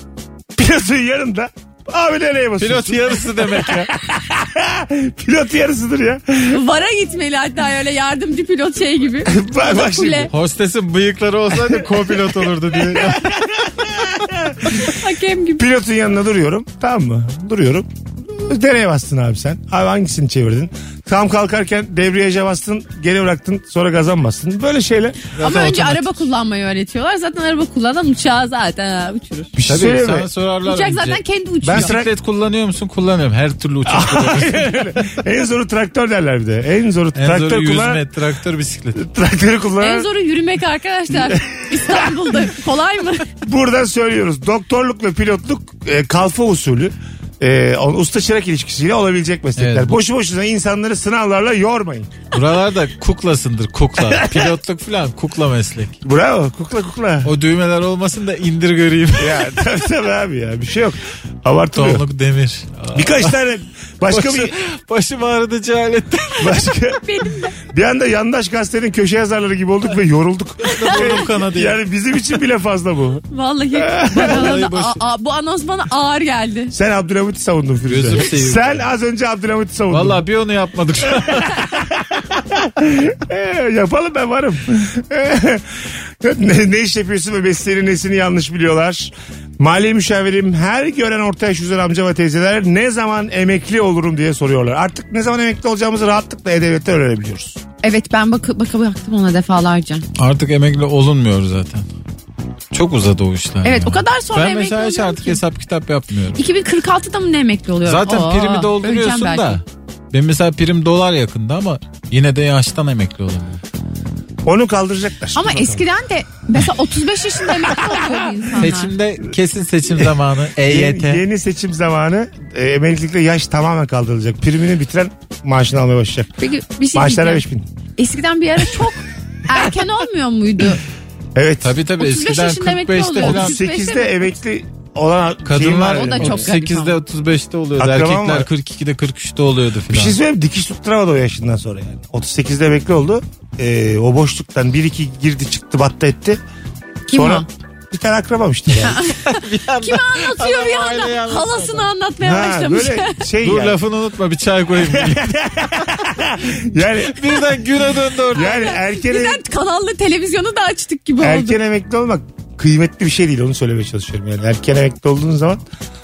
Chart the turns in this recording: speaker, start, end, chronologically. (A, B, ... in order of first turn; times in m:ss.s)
0:00.6-0:06.6 A
0:02.6-0:03.9 B
0:06.5-0:10.3 C
0:09.2-0:10.3 A
0:10.3-0:13.4 B
0:12.8-0:14.8 A
0:14.6-0:15.6 C
0:15.6-0:25.3 A
0:25.3-0:26.2 B
0:25.4-0:29.5 C
0:29.6-0:30.3 A
0:29.6-0:35.0 B
0:30.6-0:31.9 C
0:31.6-0:32.1 A
0:33.8-0:38.0 A
0:37.1-0:39.0 B
0:39.0-0:40.1 A
0:39.8-0:43.3 C
0:41.1-0:42.2 A
0:43.4-0:52.2 A
0:49.6-0:50.0 B
0:52.3-0:56.0 B
0:54.0-0:54.5 A
0:56.0-0:57.3 A
0:57.2-0:59.6 B
0:59.2-1:02.0 A
1:01.7-1:03.4 B
1:02.9-1:04.6 A
1:04.1-1:06.7 B
1:06.4-1:07.0 A
1:06.9-1:07.6 C
1:07.6-1:14.5 A
1:10.7-1:11.0 C
1:10.7-1:11.8 B
1:13.3-1:16.7 C
1:14.1-1:15.0 B
1:16.7-1:20.2 A
1:17.9-1:18.8 B
1:19.9-1:21.6 B
1:21.1-1:37.6 A
1:37.8-1:40.0 C
1:40.2-1:41.8 B
1:42.7-1:46.4 B
1:43.6-1:45.4 C
1:46.4-1:49.6 C
1:47.8-1:53.6 B
1:54.4-1:55.8 A
1:55.3-1:58.9 C
1:58.6-2:01.2 B
2:00.6-2:06.3 A
2:06.4-2:07.4 C
2:06.9-2:07.7 A
2:08.0-2:10.8 C
2:11.3-2:11.8 A
2:11.6-2:13.6 B
2:12.0-2:14.1 C
2:13.2-2:16.5 A
2:15.4-2:20.2 B
2:16.0-2:17.0 C
2:17.8-2:18.5 A
2:19.9-2:26.4 A
2:27.1-2:27.4 C
2:27.1-2:29.0 A
2:28.8-2:33.2 C
2:29.1-2:31.9 B
2:32.2-2:33.8 A
2:33.4-2:35.9 B
2:34.9-2:37.4 A
2:36.8-2:38.6 B
2:38.3-2:39.4 A
2:38.3-2:41.6 C
2:41.2-2:45.6 A